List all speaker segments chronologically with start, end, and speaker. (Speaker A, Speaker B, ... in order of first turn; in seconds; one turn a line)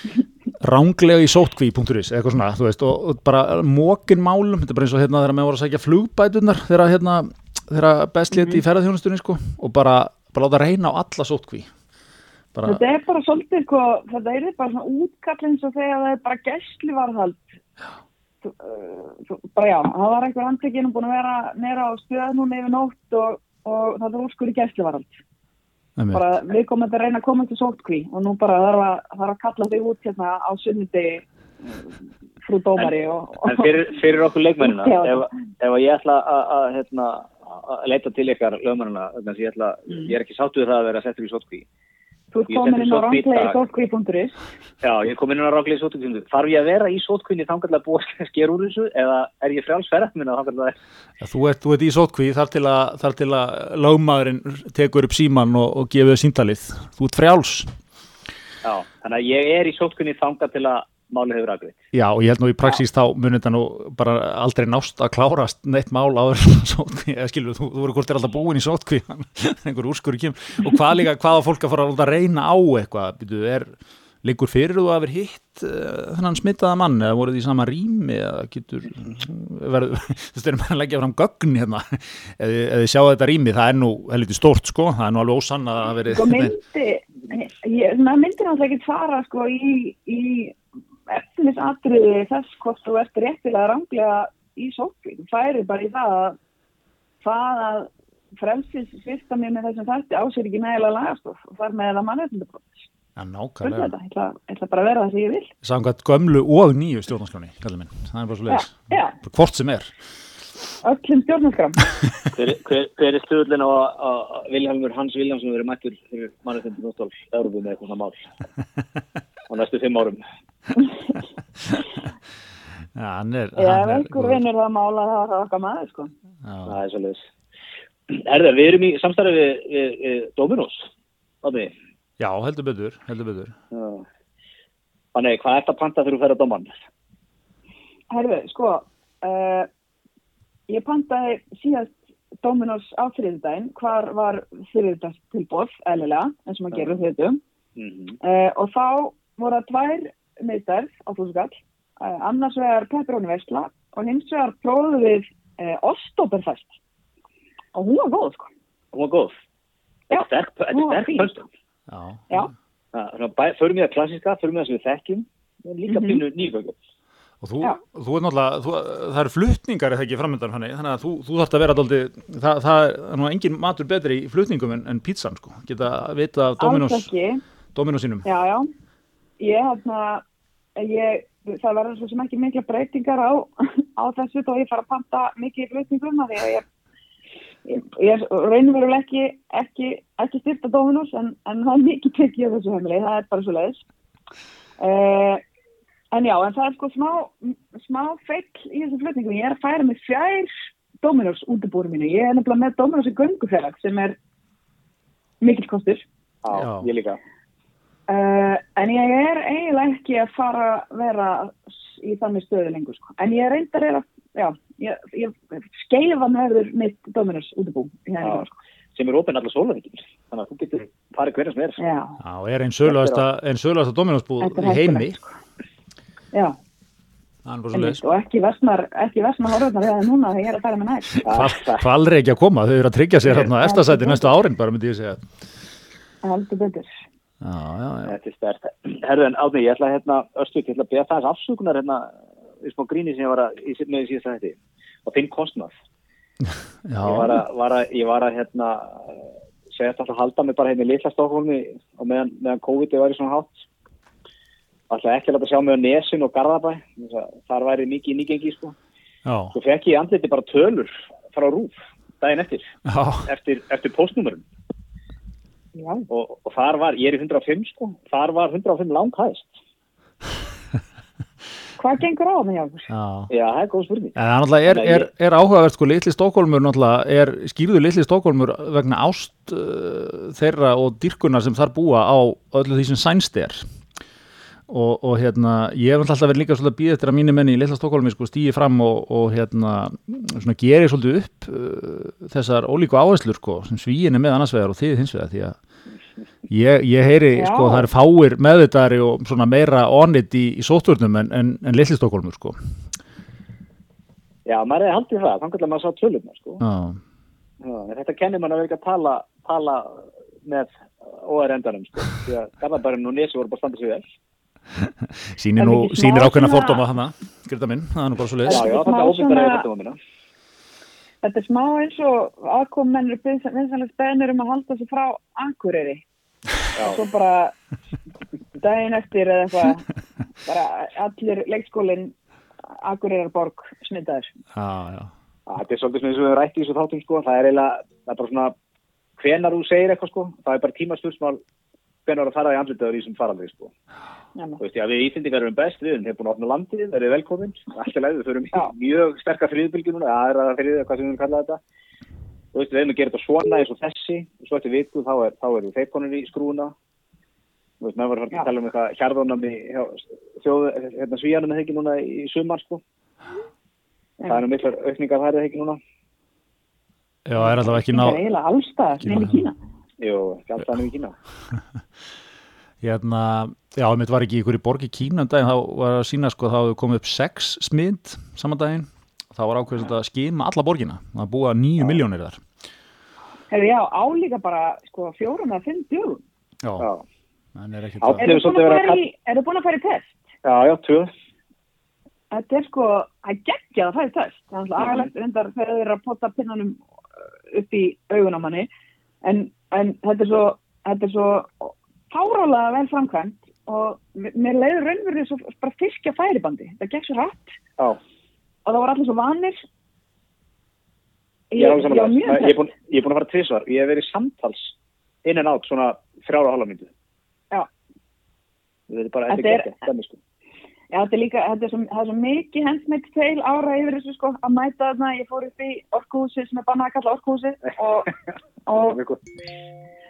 Speaker A: 0.6-11.7
Speaker B: 8.3-8.6
Speaker A: 12.5-12.8
Speaker B: 12.6-17.6
Speaker B: 18.4-25.2
Speaker A: 26.0-26.2
Speaker B: 26.1-33.8
Speaker C: 32.8-41.6
Speaker B: 34.6-35.3
Speaker B: 42.3-44.4
Speaker C: 42.5-43.6
Speaker C: 44.8-50.8
Speaker A: 51.2-57.7
Speaker C: 58.6-61.8
Speaker A: 61.9-73.7
Speaker A: 74.2-86.5
Speaker B: 86.1-90.6
Speaker B: 91.1-96.4
Speaker B: 97.2-102.8
Speaker A: 103.2-103.9
Speaker B: 103.6-105.5
Speaker A: 105.6-109.9
Speaker B: 108.5-109.1
Speaker B: 110.8-111.8
Speaker C: 112.3-118.3
Speaker C: 119.5-120.2
Speaker A: 122.9-124.4
Speaker B: 123.6-126.1
Speaker A: 126.4-126.8
Speaker C: 126.7-127.2
Speaker C: 128.1-130.9
Speaker C: 131.4-131.7
Speaker A: 132.2-133.5
Speaker C: 133.7-134.0
Speaker C: 135.1-136.7
Speaker B: 138.1-139.7
Speaker B: 140.7-147.4
Speaker C: 147.8-148.2
Speaker B: 148.2-156.7
Speaker B: 157.7-158.5
Speaker C: 158.9-159.4
Speaker B: 160.1-161.4
Speaker C: 160.1-161.4
Speaker A: 161.9-162.4
Speaker C: 162.9-166.7
Speaker B: 165.9-166.2
Speaker A: 167.4-177.1
Speaker B: 176.6-177.4
Speaker A: 177.7-178.2
Speaker B: 178.2-178.7
Speaker B: 179.4-180.2
Speaker B: 180.8-186.6
Speaker B: 187.7-193.8
Speaker B: 194.8-195.4
Speaker B: 196.1-204.2
Speaker B: 205.4-206.0
Speaker C: 206.4-207.2
Speaker A: 206.5-206.9
Speaker B: 208.1-218.5
Speaker C: 218.2-221.8
Speaker B: 221.8-222.2
Speaker A: 222.2-225.2
Speaker C: 222.9-223.2
Speaker B: 224.4-225.2
Speaker A: 227.4-228.0
Speaker B: 227.7-231.2
Speaker A: 231.2-235.3
Speaker C: 231.2-231.8
Speaker B: 233.6-234.3
Speaker B: 236.2-236.9
Speaker A: 237.4-238.2
Speaker C: 238.1-245.7
Speaker A: 246.4-247.4
Speaker C: 247.0-253.7
Speaker C: 254.9-258.7
Speaker A: 259.2-259.5
Speaker C: 259.5-262.7
Speaker A: 262.9-263.3
Speaker C: 263.2-264.4
Speaker B: 265.7-266.1
Speaker C: 266.1-269.6
Speaker B: 271.8-272.9
Speaker A: 272.9-273.3
Speaker C: 273.3-274.1
Speaker A: 274.1-283.6
Speaker C: 274.7-275.1
Speaker A: 284.7-295.6
Speaker A: 296.5-302.6
Speaker B: 297.3-297.9
Speaker C: 304.4-306.6
Speaker A: 306.6-307.0
Speaker C: 307.6-314.1
Speaker A: 314.7-318.7
Speaker B: 315.6-316.8
Speaker B: 318.4-319.6
Speaker C: 318.5-320.0
Speaker B: 321.2-326.0
Speaker C: 326.8-327.0
Speaker B: 326.8-327.5
Speaker B: 328.6-329.9
Speaker B: 330.4-332.1
Speaker B: 332.7-334.3
Speaker A: 334.5-335.1
Speaker C: 335.5-338.5
Speaker C: 339.2-341.4
Speaker C: 342.1-343.7
Speaker C: 344.6-351.6
Speaker C: 352.5-356.7
Speaker C: 357.8-362.8
Speaker C: 364.3-365.8
Speaker A: 367.2-368.2
Speaker B: 367.4-369.6
Speaker A: 369.0-369.4
Speaker C: 370.0-371.1
Speaker A: 372.8-382.4
Speaker B: 383.5-386.2
Speaker A: 386.6-386.9
Speaker C: 386.8-387.0
Speaker A: 387.5-388.2
Speaker C: 388.0-389.0
Speaker B: 388.2-390.2
Speaker C: 390.4-391.1
Speaker B: 392.3-396.8
Speaker C: 394.8-395.1
Speaker B: 397.5-398.7
Speaker B: 399.2-407.6
Speaker B: 408.6-409.6
Speaker B: 411.5-412.6
Speaker C: 411.5-414.7
Speaker C: 415.2-416.9
Speaker C: 418.9-420.2
Speaker B: 419.3-419.7
Speaker B: 420.9-428.1
Speaker B: 428.7-429.0
Speaker C: 428.8-429.2